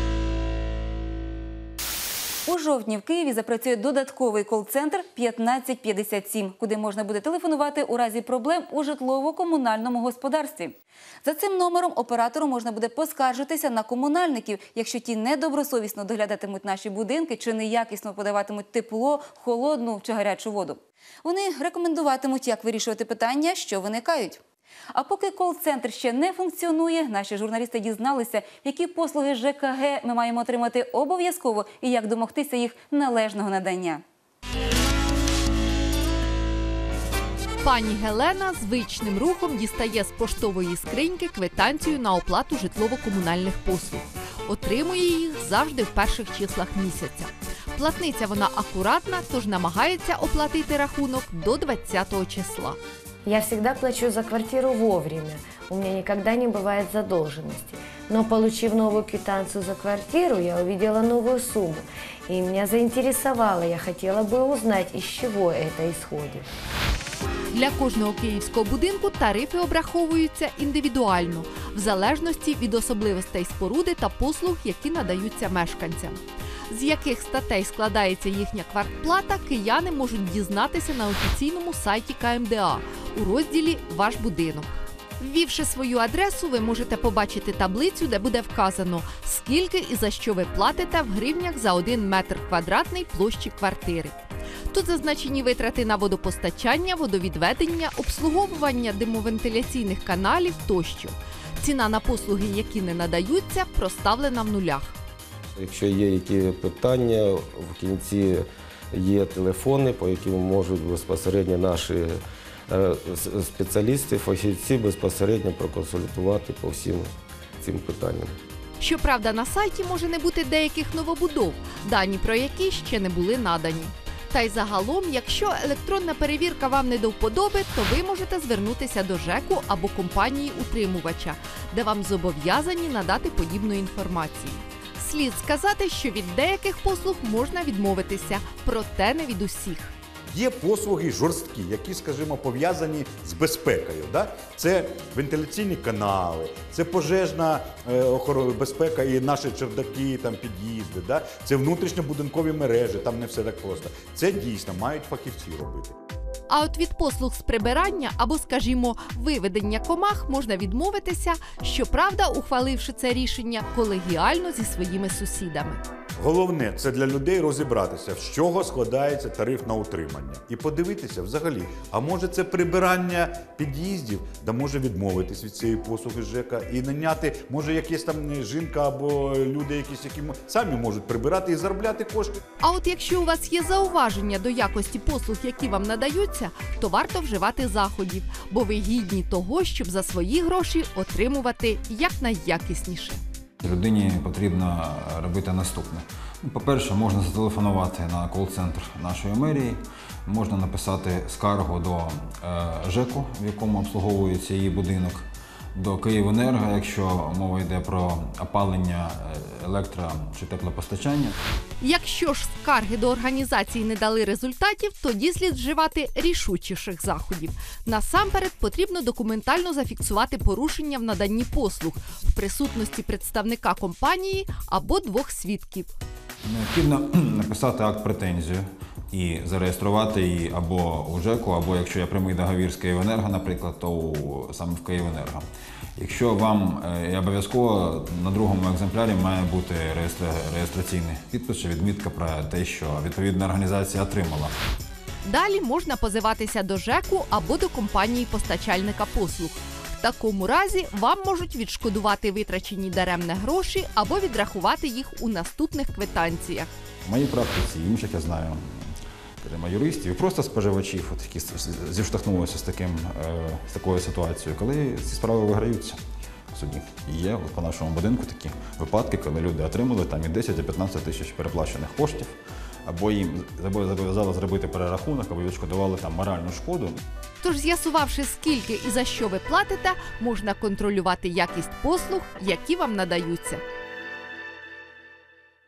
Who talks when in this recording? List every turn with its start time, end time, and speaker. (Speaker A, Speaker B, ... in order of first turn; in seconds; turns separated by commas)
Speaker A: 2.5-24.4, Speaker A: 24.9-34.0, Speaker B: 37.6-52.8, Speaker C: 53.3-66.4, Speaker B: 67.5-94.2, Speaker B: 94.7-104.9, Speaker D: 105.6-117.1, Speaker D: 117.6-118.3, Speaker B: 118.8-139.9, Speaker E: 140.3-155.9, Speaker B: 156.5-165.8, Speaker E: 166.2-182.4, Speaker B: 182.6-193.2, Speaker F: 193.6-211.3, Speaker B: 211.8-225.9, Speaker F: 226.4-235.4, Speaker F: 236.0-244.5, Speaker B: 245.2-256.7, Speaker F: 257.1-266.0, Speaker F: 266.5-277.0, Speaker B: 277.4-283.6